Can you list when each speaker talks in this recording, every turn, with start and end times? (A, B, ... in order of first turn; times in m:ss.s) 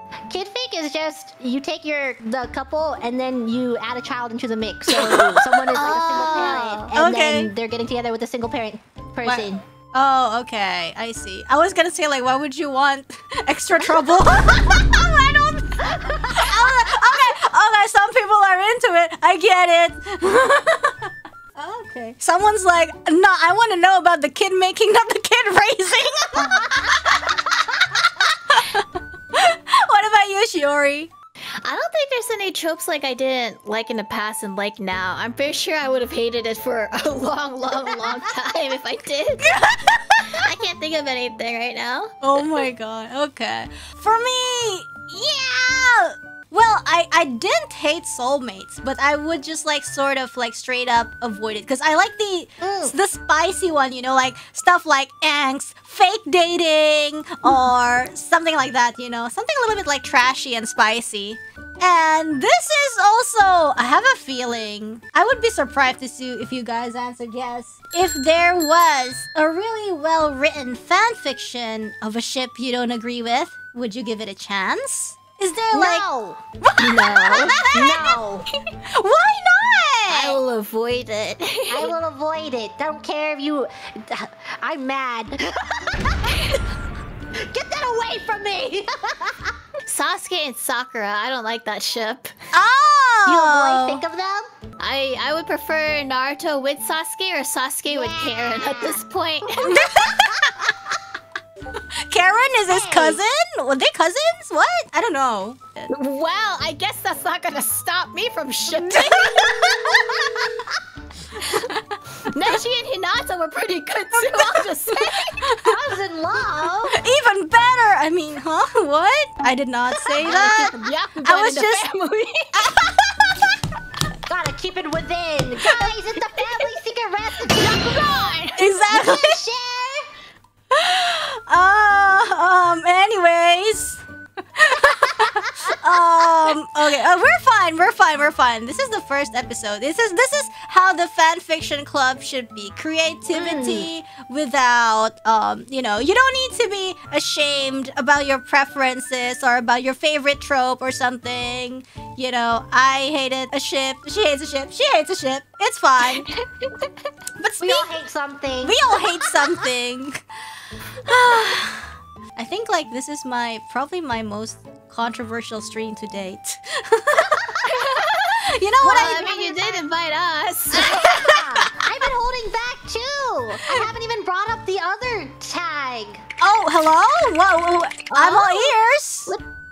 0:00.3-0:09.6 A
0:04.9-0:06.2 B
0:05.7-0:06.9 C
0:06.9-0:07.5 B
0:09.2-0:31.1 B
0:31.6-0:39.5 C
0:39.4-0:40.4 B
0:40.4-0:42.6 C
0:42.2-1:16.1 B
0:52.6-0:52.9 A
1:15.7-1:16.4 A
1:16.6-1:18.2 B
1:16.8-1:17.7 C
1:17.6-1:18.5 A
1:18.8-1:20.4 B
1:20.1-1:21.9 C
1:21.7-1:26.5 A
1:27.5-1:29.5 A
1:29.9-1:32.3 C
1:32.5-1:34.0 B
1:33.2-1:34.5 A
1:34.8-1:39.8 C
1:37.9-1:39.0 A
1:39.6-1:40.7 B
1:41.8-1:45.9 B
1:42.7-1:43.2 A
1:45.9-1:49.5 C
1:48.7-1:50.1 B
1:49.5-1:50.7 A
1:51.4-1:51.7 C
1:51.5-1:52.0 B
1:52.3-1:55.5 C
1:54.1-1:55.8 B
1:55.6-1:57.0 A
1:56.9-2:01.9 B
2:00.2-2:02.7 C
2:02.5-2:03.4 B
2:04.3-2:08.1 A
2:05.6-2:06.7 C
2:07.4-2:08.8 C
2:08.6-2:09.4 B
2:08.9-2:10.1 A
2:10.7-2:14.0 B
2:14.6-2:36.3 B
2:23.3-2:23.9 A
2:36.0-2:36.9 C
2:37.4-2:37.9 B
2:37.6-2:38.9 A
2:38.6-2:40.2 B
2:41.0-2:47.5 B
2:47.4-2:47.7 A
2:47.6-2:51.0 C
2:48.5-2:49.3 B
2:48.9-2:49.8 A
2:50.7-2:56.2 A
2:50.8-2:51.4 B
2:56.4-2:59.3 B
2:58.1-2:58.7 C